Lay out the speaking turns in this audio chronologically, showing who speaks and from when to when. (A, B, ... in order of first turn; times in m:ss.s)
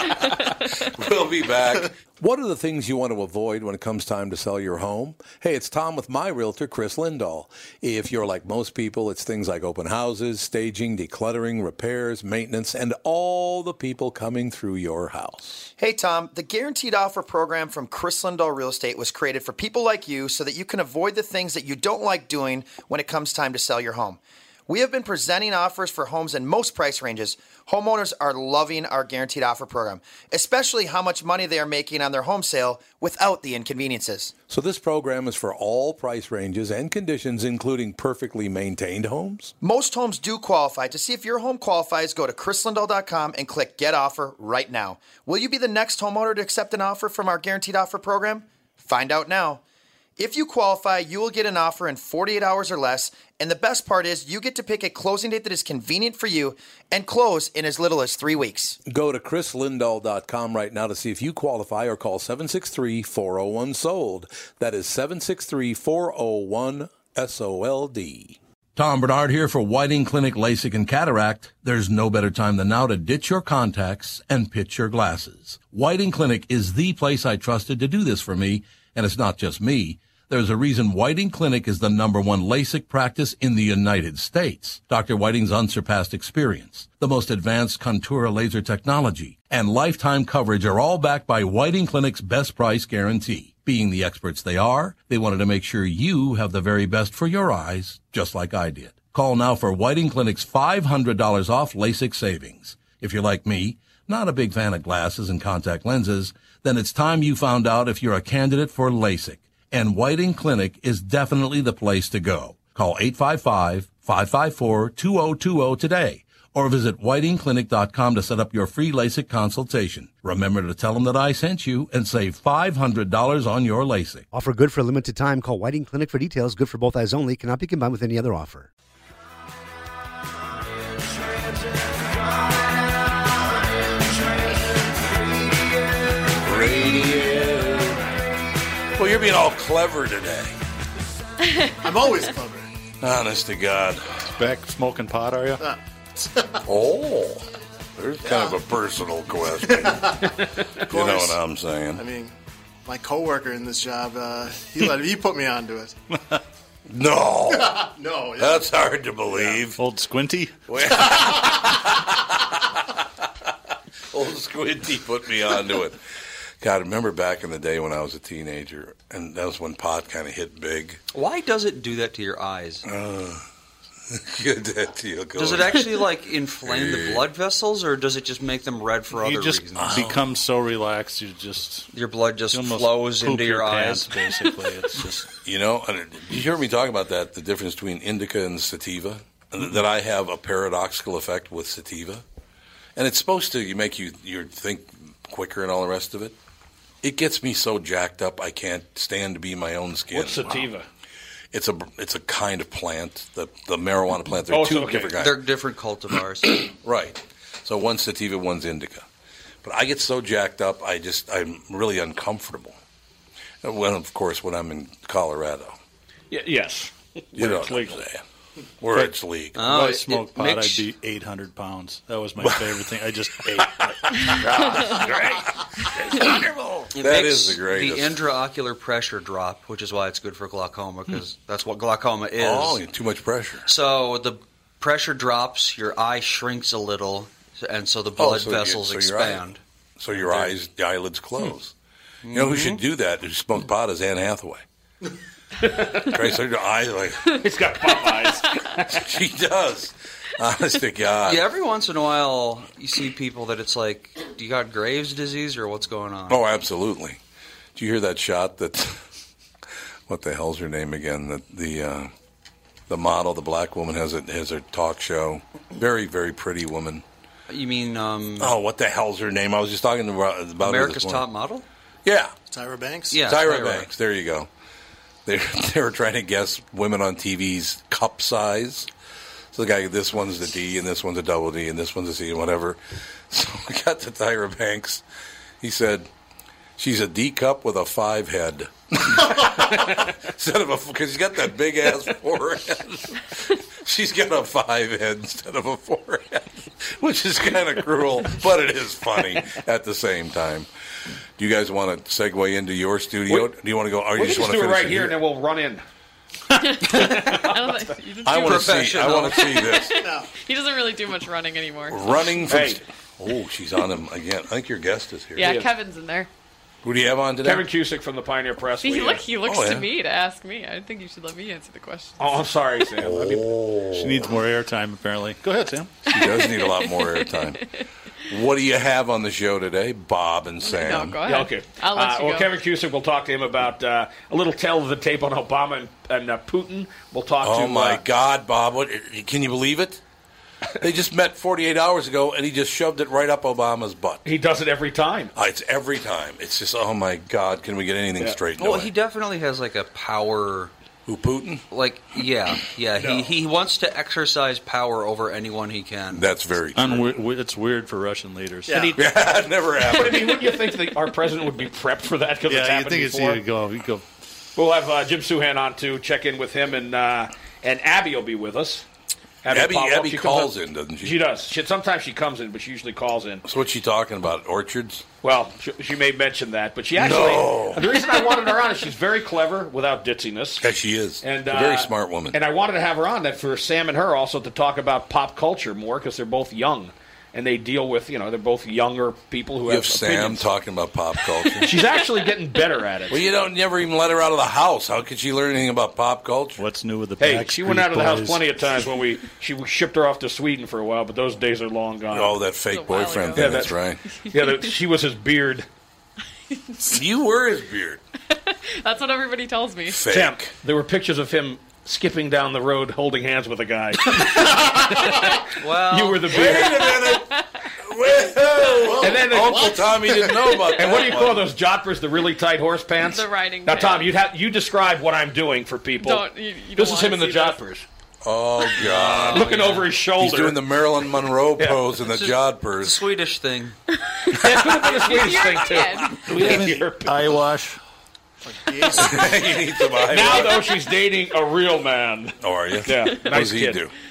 0:00.9-0:15.6 A
0:15.8-0:34.3 B
0:34.5-0:39.5 A
0:39.6-0:49.6 B
0:50.2-0:58.8 B
0:58.9-2:04.2 A
2:04.3-2:08.7 C
2:16.4-2:18.0 A
2:19.0-2:20.6 A
2:21.4-2:21.7 D
2:21.8-2:22.7 E
2:23.0-2:24.2 A
2:24.2-2:25.6 F
2:25.6-2:26.6 E
2:26.6-2:27.4 A
2:28.0-2:30.2 A
2:28.2-2:28.6 E
2:29.6-2:30.3 E
2:30.9-2:31.4 E
2:30.9-2:32.0 A
2:31.9-2:32.3 E
2:32.8-2:35.9 E
2:36.9-2:39.8 A
2:37.5-2:38.7 E
2:39.3-2:39.6 E
2:39.8-2:40.6 F
2:40.7-2:42.2 A
2:40.9-2:41.8 E
2:44.1-2:46.0 A
2:46.6-2:51.0 A
2:51.1-2:52.8 G
2:52.8-2:53.4 A
2:54.1-2:55.8 A
2:55.4-3:00.0 G
2:56.6-2:57.2 A
2:59.1-3:01.9 F
2:59.8-3:00.2 A
3:01.9-3:04.2 G
3:02.5-3:05.3 F
3:05.4-3:12.2 A
3:13.0-3:16.4 A
3:17.0-3:20.7 A
3:20.1-3:20.8 H
3:21.5-3:25.4 A
3:24.5-3:25.1 H
3:25.2-3:26.6 G
3:26.6-3:29.0 A
3:29.6-3:32.8 A
3:33.6-3:35.7 A
3:36.3-3:38.0 H
3:37.3-3:38.2 A
3:38.8-3:39.6 A
3:38.9-3:44.0 F
3:39.6-3:40.8 G
3:42.4-3:42.7 A
3:44.5-3:45.3 H
3:44.5-3:45.3 A
3:46.0-3:48.2 A
3:46.9-3:52.8 G
3:52.4-3:53.7 A
3:53.7-3:59.6 G
3:58.2-3:59.4 A
4:00.0-4:01.7 A
4:02.2-4:02.8 G
4:02.3-4:04.6 A
4:05.6-4:06.1 H
4:06.1-4:07.4 A
4:07.4-4:08.8 H
4:08.9-4:11.5 A
4:11.2-4:16.4 G
4:16.3-4:17.2 A
4:17.7-4:19.0 A
4:20.1-4:22.1 A
4:22.9-4:27.0 A
4:27.5-4:28.5 G
4:28.4-4:31.2 A
4:30.6-4:31.6 G
4:32.0-4:32.3 A
4:32.5-4:33.2 E
4:33.1-4:33.9 G
4:33.2-4:34.5 A
4:35.2-4:38.9 A
4:39.5-4:45.0 A
4:45.6-4:46.1 A
4:46.8-5:00.7 A
5:01.4-5:05.2 A
5:03.3-5:03.5 H
5:04.1-5:05.8 H
5:06.6-5:12.0 D
5:06.8-5:07.9 H
5:08.2-5:10.0 A
5:08.3-5:09.7 G
5:10.0-5:10.3 E
5:11.9-5:15.5 A
5:12.5-5:12.8 H
5:15.4-5:16.3 D
5:15.4-5:15.7 H
5:16.8-5:17.7 A
5:17.4-5:19.3 H
5:18.8-5:22.5 D
5:19.4-5:19.9 A
5:22.2-5:23.5 H
5:23.0-5:24.3 A
5:23.9-5:26.0 F
5:26.1-5:27.6 A
5:26.1-5:27.8 D
5:28.3-5:31.2 A
5:30.6-5:32.5 D
5:31.2-5:38.0 H
5:37.4-5:40.0 A
5:40.8-5:44.2 A
5:44.2-5:45.3 H
5:45.3-5:48.9 A
5:48.6-5:50.7 G
5:51.0-5:51.6 A
5:51.7-5:56.2 G
5:56.1-5:57.1 A
5:56.7-5:59.0 F
5:58.7-5:59.0 H
5:59.0-6:00.4 A
5:59.8-6:03.4 H
6:02.5-6:04.0 F
6:04.6-6:08.8 H
6:09.4-6:13.4 H
6:09.5-6:11.2 A
6:13.4-6:15.0 A
6:15.2-6:20.7 H
6:16.9-6:18.0 A
6:20.6-6:22.4 A
6:21.2-6:30.5 H
6:29.6-6:31.8 A
6:31.6-6:33.3 H
6:33.1-6:36.6 A
6:36.6-6:38.5 F
6:37.2-6:42.4 H
6:42.1-6:44.0 A
6:42.7-6:43.7 D
6:43.3-6:43.8 H
6:44.3-6:45.7 H
6:44.3-6:44.6 D
6:46.8-6:48.0 A
6:48.3-6:50.0 D
6:49.9-6:50.5 A
6:50.0-6:57.0 H
6:55.6-6:56.6 G
6:56.3-6:57.3 A
6:57.0-6:57.6 D
6:57.8-7:01.5 A
6:59.0-6:59.9 H
7:00.7-7:07.8 H
7:03.0-7:04.1 D
7:06.0-7:07.6 D
7:08.2-7:13.0 A
7:08.8-7:09.9 G
7:09.0-7:10.6 H
7:12.1-7:13.8 G
7:14.1-7:16.3 D
7:14.3-7:17.4 H
7:16.3-7:16.7 A
7:16.4-7:17.8 F
7:18.4-7:19.6 E
7:19.0-7:20.8 A
7:20.0-7:23.8 H
7:22.4-7:23.9 A